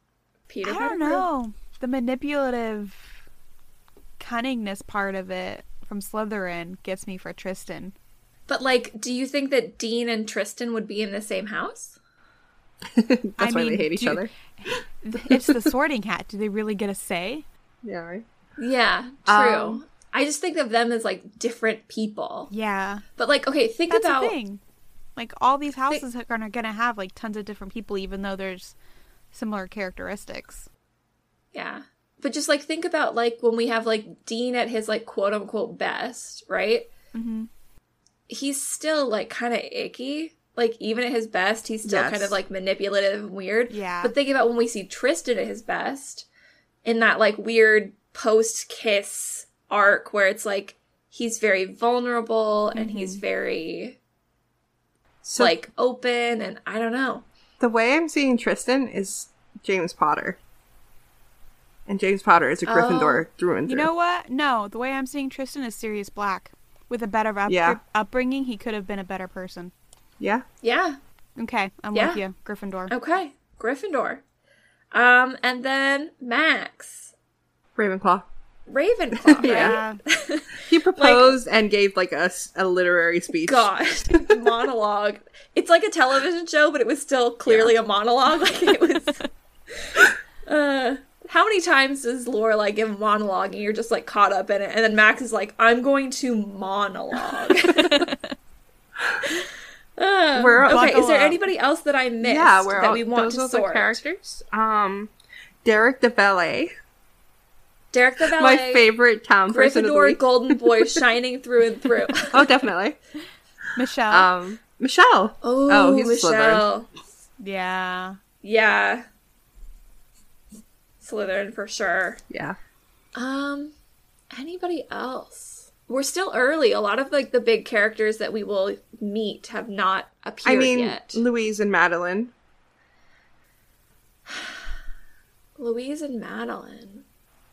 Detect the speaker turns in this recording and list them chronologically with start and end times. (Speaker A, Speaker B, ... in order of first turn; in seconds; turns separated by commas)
Speaker A: 0.5-1.2, Speaker B: 0.6-3.1, Speaker B: 4.2-7.9, Speaker A: 8.5-11.9, Speaker C: 12.9-14.3, Speaker B: 13.4-17.4, Speaker C: 17.8-18.2, Speaker A: 18.6-22.5, Speaker C: 19.2-19.8, Speaker B: 22.5-23.0, Speaker A: 23.2-24.4, Speaker B: 23.9-24.6, Speaker B: 25.1-28.7, Speaker B: 29.3-30.7, Speaker A: 31.5-36.9, Speaker B: 37.1-37.5, Speaker A: 38.3-46.3, Speaker C: 41.8-42.4, Speaker B: 43.7-44.1, Speaker A: 46.8-54.0, Speaker B: 52.7-53.2, Speaker C: 55.2-55.5, Speaker A: 55.4-57.2, Speaker C: 57.6-60.4, Speaker C: 61.9-63.9, Speaker A: 62.7-63.2, Speaker B: 63.7-69.7, Speaker C: 67.5-67.8, Speaker C: 70.2-70.4, Speaker A: 70.6-71.0, Speaker B: 71.4-72.9, Speaker A: 71.9-72.2, Speaker A: 72.9-74.2, Speaker A: 74.9-77.1, Speaker C: 77.8-78.2, Speaker A: 78.7-81.3, Speaker C: 79.2-79.8, Speaker B: 79.4-80.0, Speaker C: 80.7-84.3, Speaker A: 83.4-89.2, Speaker C: 87.5-87.7, Speaker A: 90.5-98.1, Speaker B: 97.9-98.3, Speaker A: 100.0-104.0, Speaker C: 100.3-101.0, Speaker B: 100.7-101.4, Speaker C: 102.2-105.1, Speaker C: 105.6-106.7, Speaker A: 107.9-108.9, Speaker C: 108.2-111.0, Speaker A: 109.5-112.5, Speaker C: 112.3-113.0, Speaker B: 113.8-114.3, Speaker C: 114.1-116.6, Speaker A: 115.4-116.9, Speaker B: 117.4-118.2, Speaker A: 118.4-119.0, Speaker A: 121.0-122.2, Speaker C: 122.3-122.6, Speaker A: 123.1-123.7, Speaker A: 124.3-131.2, Speaker C: 130.4-132.3, Speaker A: 134.3-134.6, Speaker A: 135.6-137.0